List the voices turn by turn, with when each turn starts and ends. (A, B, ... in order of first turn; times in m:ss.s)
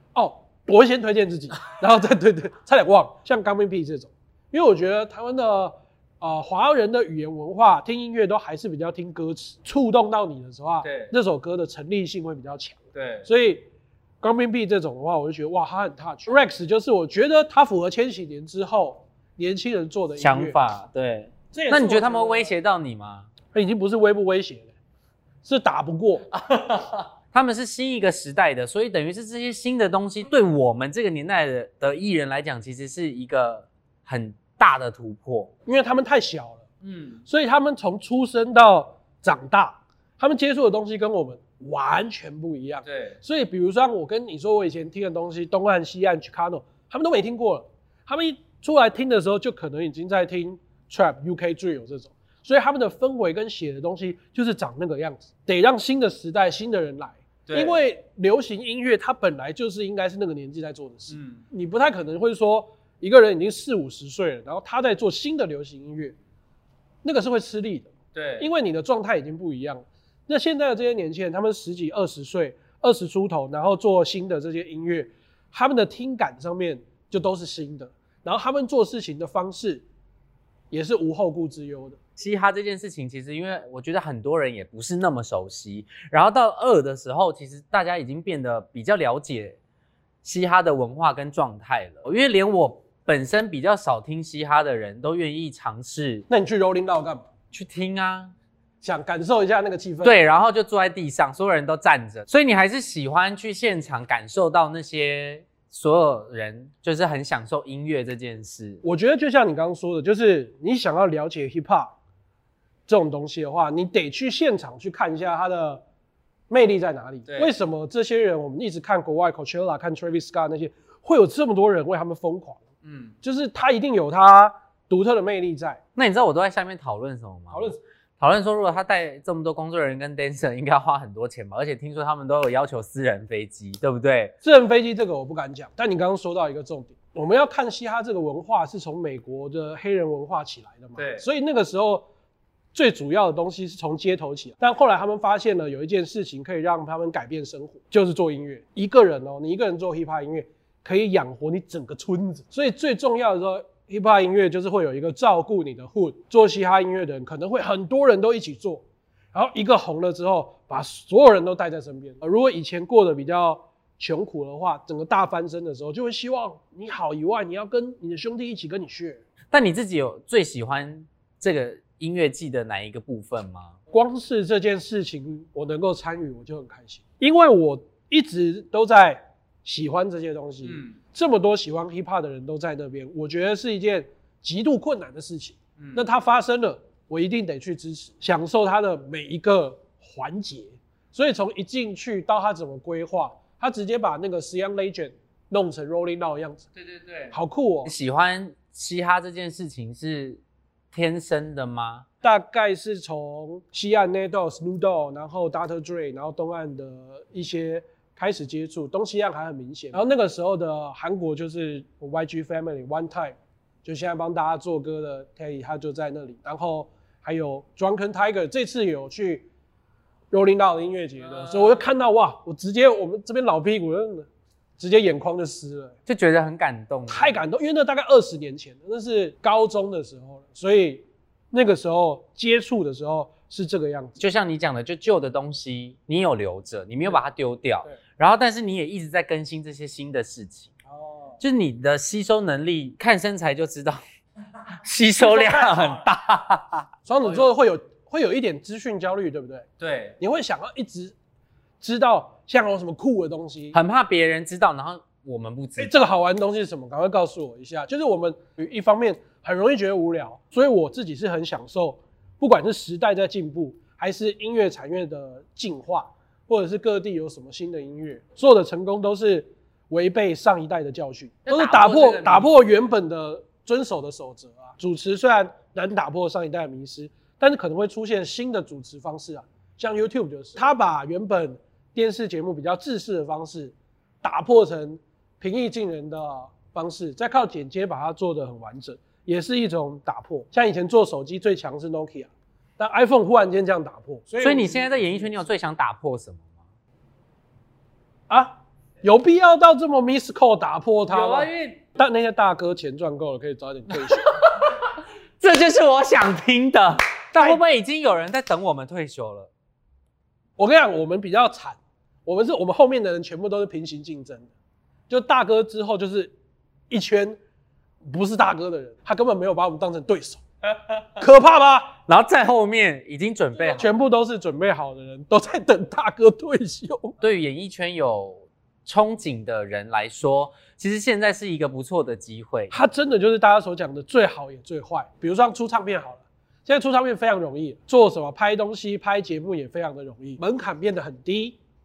0:00.2-0:13.7 A
0:10.8-0:11.1 B
0:12.9-0:13.3 B
0:14.2-0:20.6 A
0:20.2-0:23.3 B
0:21.5-0:22.5 A
0:23.5-0:24.7 A
0:25.4-0:26.3 A
0:26.3-0:35.5 B
0:35.7-0:36.7 A
0:36.8-0:37.2 B
0:37.3-1:06.2 A
0:42.8-0:43.2 B
0:57.5-0:57.8 B
1:01.1-1:01.4 B
1:07.0-1:19.8 A
1:08.1-1:08.5 B
1:20.7-1:22.0 A
1:22.2-1:29.6 B
1:30.2-1:36.3 B
1:36.3-1:37.3 A
1:37.5-1:38.3 B
1:38.8-1:40.3 A
1:40.0-1:48.8 B
1:48.8-1:51.9 A
1:52.9-1:55.8 A
1:56.5-2:02.6 A
1:57.3-1:57.5 B
2:02.8-2:03.1 B
2:03.2-2:05.8 A
2:06.0-2:14.3 B
2:07.5-2:07.8 A
2:14.4-2:22.1 A
2:21.0-2:21.3 B
2:22.7-2:38.8 A
2:39.3-2:49.2 A
2:49.5-2:53.8 B
2:53.9-3:16.7 A
3:00.6-3:01.0 B
3:05.8-3:06.0 B
3:16.8-3:20.4 B
3:17.3-3:17.9 A
3:20.9-3:22.1 B
3:22.2-3:39.5 A
3:40.3-3:44.3 A
3:41.2-3:41.9 B
3:44.8-3:46.0 A
3:46.1-3:47.4 B
3:47.1-3:54.2 A
3:54.2-4:00.7 B
4:00.9-4:01.4 A
4:01.4-4:04.0 B
4:04.8-4:07.5 B
4:05.2-4:06.0 A
4:07.1-4:09.7 A
4:09.8-4:10.2 B
4:10.2-4:11.2 A
4:11.8-4:13.8 A
4:13.7-4:16.0 B
4:15.8-4:55.5 A
4:31.4-4:32.5 B
4:54.4-4:56.5 B
4:58.3-5:04.3 A
5:01.1-5:01.8 B
5:03.9-5:09.5 B
5:07.4-5:07.6 A
5:10.6-5:14.5 A
5:15.1-5:16.3 A
5:16.9-5:17.4 A
5:18.1-5:20.4 A
5:21.2-5:22.0 A
5:22.1-5:23.9 B
5:23.6-5:27.2 A
5:27.2-5:32.7 B
5:32.7-5:41.6 A